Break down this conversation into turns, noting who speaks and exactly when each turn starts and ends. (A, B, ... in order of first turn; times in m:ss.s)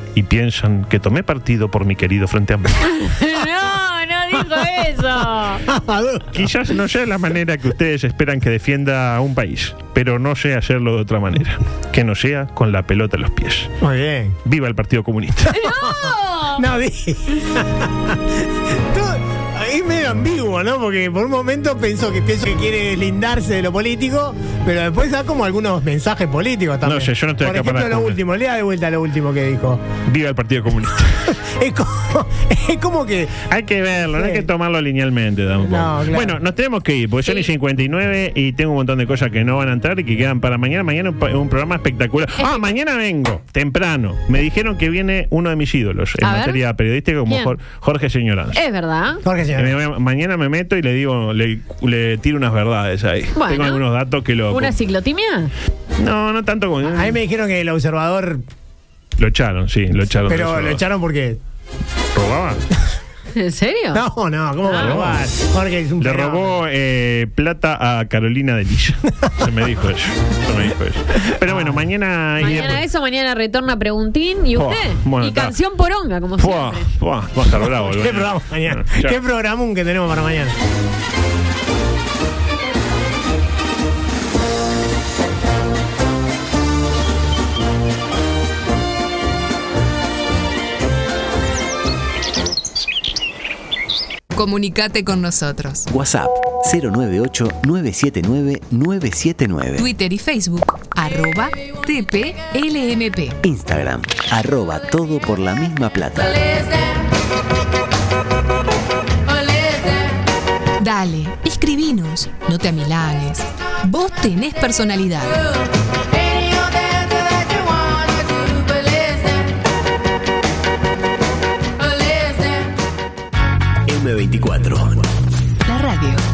0:00.2-0:02.9 A
0:02.8-0:05.6 B
0:05.7-0:06.3 C
0:06.3-0:13.7 A
0:13.8-0:14.4 C
0:14.4-0:15.6 A
0:15.5-0:16.6 B
0:15.6-0:15.9 C
0:16.6-0:29.8 C
0:26.8-0:28.2 A
0:30.1-0:31.3 A
0:31.4-0:33.5 C
0:33.5-0:48.6 A
0:34.2-0:34.4 C
0:35.6-0:36.4 C
0:42.4-0:42.7 B
0:46.2-0:46.6 B
0:47.3-0:47.6 B
0:48.6-0:49.2 B
0:49.2-0:49.8 C
0:49.6-0:54.8 A
0:53.4-0:53.8 B
0:54.5-0:55.5 B
0:56.0-0:57.2 A
0:56.8-0:58.4 C
0:59.2-1:00.8 A
1:00.3-1:01.4 C
1:02.1-1:02.6 A
1:03.4-1:04.0 B
1:03.9-1:06.6 C
1:04.6-1:05.0 B
1:04.7-1:05.2 A
1:06.0-1:12.8 A
1:11.4-1:11.8 C
1:12.4-1:16.9 B
1:14.6-1:15.6 A
1:16.4-1:19.2 A
1:17.6-1:20.6 C
1:34.3-1:35.9 D
1:35.9-1:39.9 E
1:39.8-1:43.4 D
1:43.4-1:46.5 E
1:50.8-1:55.4 D
2:03.9-2:05.0 E
2:05.7-2:06.2 D